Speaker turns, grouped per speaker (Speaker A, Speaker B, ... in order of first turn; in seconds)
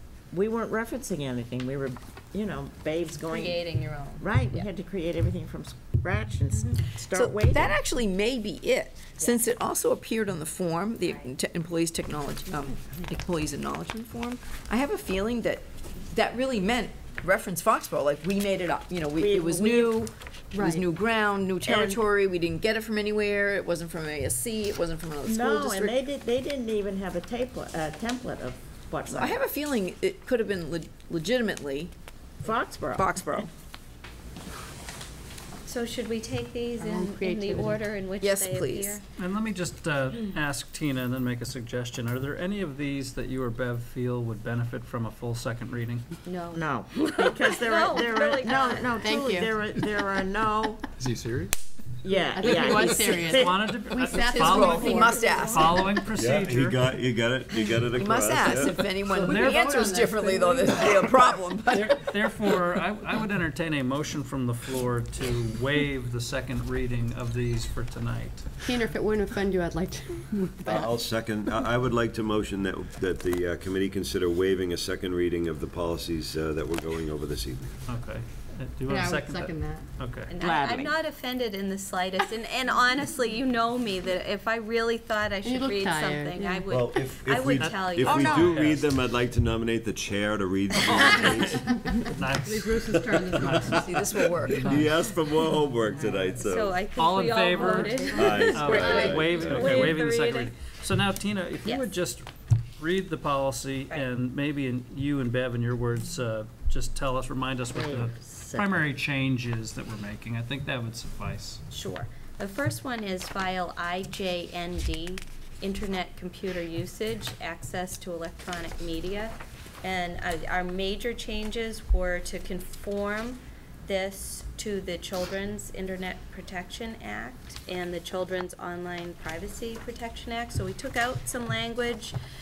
Speaker A: 0.3-3.6, 4.2-7.8, 19.2-20.0, 25.2-29.4, 32.4-33.5, 46.5-50.8, 52.0-53.7, 80.4-80.9, 88.0-88.4, 107.7-108.7
Speaker B: 3.3-4.7, 11.0-11.3, 21.6-22.0, 35.6-39.0, 46.2-49.1, 54.5-55.9, 80.3-88.6, 90.9-91.4, 96.3-100.5, 111.7-132.2
Speaker C: 7.1-26.0, 29.1-31.9, 32.9-33.5, 38.2-39.0, 54.4-55.8, 57.9-62.1, 93.6-94.8
Speaker D: 20.5-20.8, 36.8-37.8, 49.0-49.5, 52.3-55.1, 68.6-70.9, 78.9-79.8, 85.4-86.6, 92.9-93.5
Speaker E: 39.2-46.0, 51.0-51.5, 52.4-56.8, 59.1-60.4, 61.7-68.5, 77.9-80.3, 87.6-88.9, 91.5-93.9, 94.5-94.9, 97.0-111.6
Speaker F: 56.1-58.8, 70.6-77.8, 86.7-93.9, 94.6-96.8, 98.1-100.0